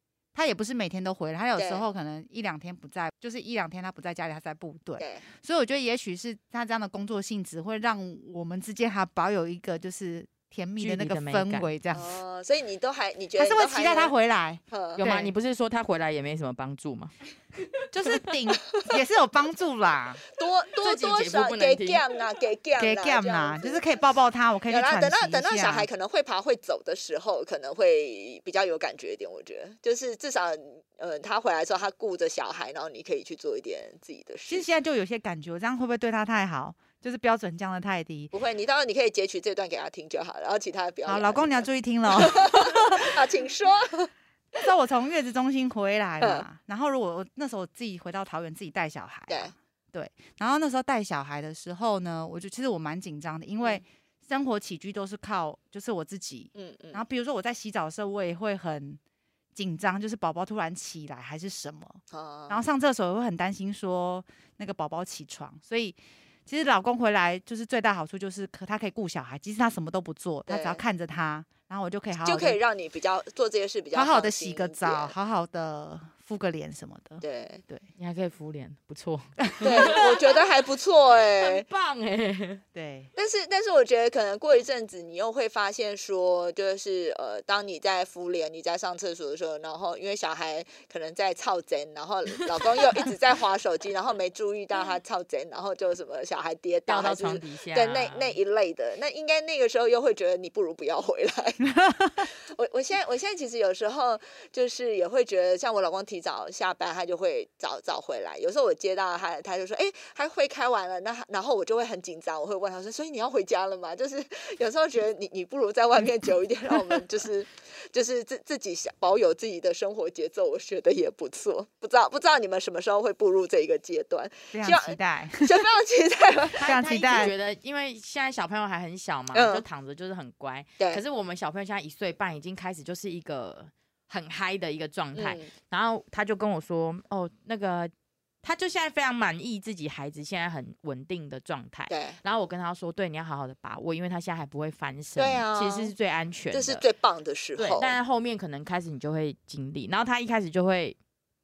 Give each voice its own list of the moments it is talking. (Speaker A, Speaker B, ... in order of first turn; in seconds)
Speaker A: 0.3-12.1, 13.4-15.3, 17.9-20.2, 22.8-25.9, 34.5-38.3, 41.0-43.2, 44.5-59.0, 59.5-72.6, 73.9-77.8, 79.6-80.0, 82.7-83.1, 101.7-102.2, 124.5-125.6, 126.6-127.3
Speaker B: 1.6-1.8, 5.0-5.2, 11.9-14.1, 14.7-15.0, 20.4-23.8, 24.7-34.6, 38.3-44.1, 56.5-57.0, 62.1-62.6, 70.5-70.8, 72.2-75.1, 77.2-77.6, 79.6-81.6, 83.2-101.6, 102.2-127.3, 129.3-129.6, 135.1-135.5, 141.9-142.2, 145.2-145.9, 146.5-147.9
Speaker C: 10.8-11.7, 15.0-18.3, 20.8-22.0, 78.0-80.4, 81.3-82.6, 96.9-98.4, 126.6-137.9, 138.4-146.8, 147.6-151.0